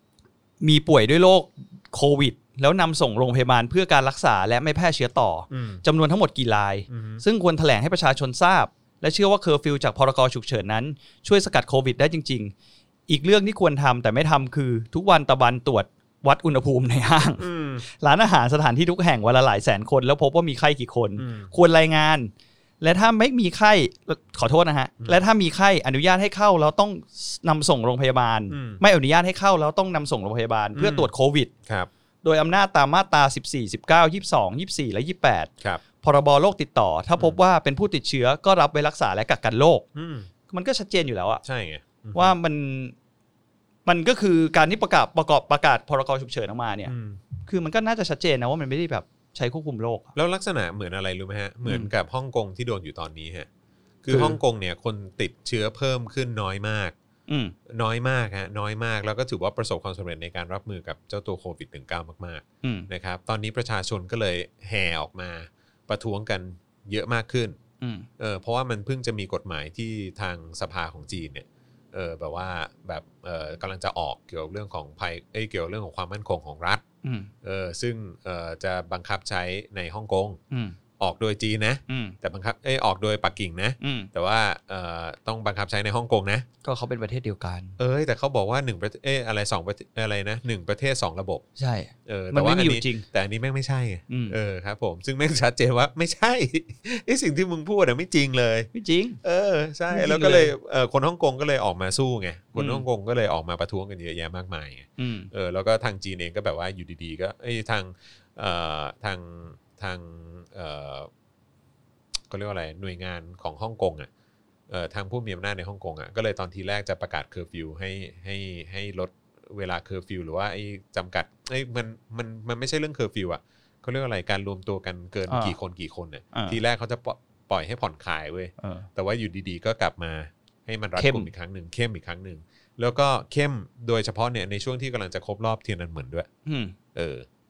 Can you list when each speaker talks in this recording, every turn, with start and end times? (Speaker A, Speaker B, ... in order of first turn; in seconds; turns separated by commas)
Speaker A: 0.6-12.5, Speaker B: 5.5-5.8, Speaker B: 6.9-7.2, Speaker A: 13.1-31.5, Speaker B: 17.4-17.9, Speaker B: 21.2-21.5, Speaker B: 28.5-28.8, Speaker B: 30.8-31.1, Speaker A: 32.2-35.5, Speaker A: 36.0-39.9, Speaker B: 40.0-40.3, Speaker A: 40.5-41.4, Speaker B: 41.4-42.3, Speaker A: 42.1-43.0, Speaker A: 43.9-46.9, Speaker B: 46.9-47.2, Speaker A: 47.5-50.1, Speaker B: 50.1-53.5, Speaker A: 51.6-51.9, Speaker B: 54.0-57.0, Speaker A: 54.1-54.4, Speaker A: 57.3-57.5, Speaker B: 57.7-67.6, Speaker A: 62.6-62.9, Speaker A: 67.8-68.1, Speaker B: 68.2-76.8, Speaker A: 77.0-77.3, Speaker B: 77.4-80.4, Speaker A: 80.5-80.8, Speaker B: 81.0-86.5, Speaker A: 81.9-82.2, Speaker A: 83.8-84.1, Speaker A: 86.6-87.8, Speaker B: 87.8-91.4, Speaker A: 91.6-93.0, Speaker B: 92.0-98.7, Speaker A: 94.1-94.4, Speaker A: 98.7-99.2, Speaker B: 99.2-111.1, Speaker A: 99.9-100.5, Speaker A: 102.5-102.9, Speaker A: 105.0-105.3, Speaker B: 112.3-114.1, Speaker B: 114.7-136.3, Speaker A: 125.3-125.5, Speaker A: 126.3-126.6, Speaker A: 128.6-128.9, Speaker A: 131.0-131.3, Speaker A: 136.5-136.8, Speaker B: 136.9-137.2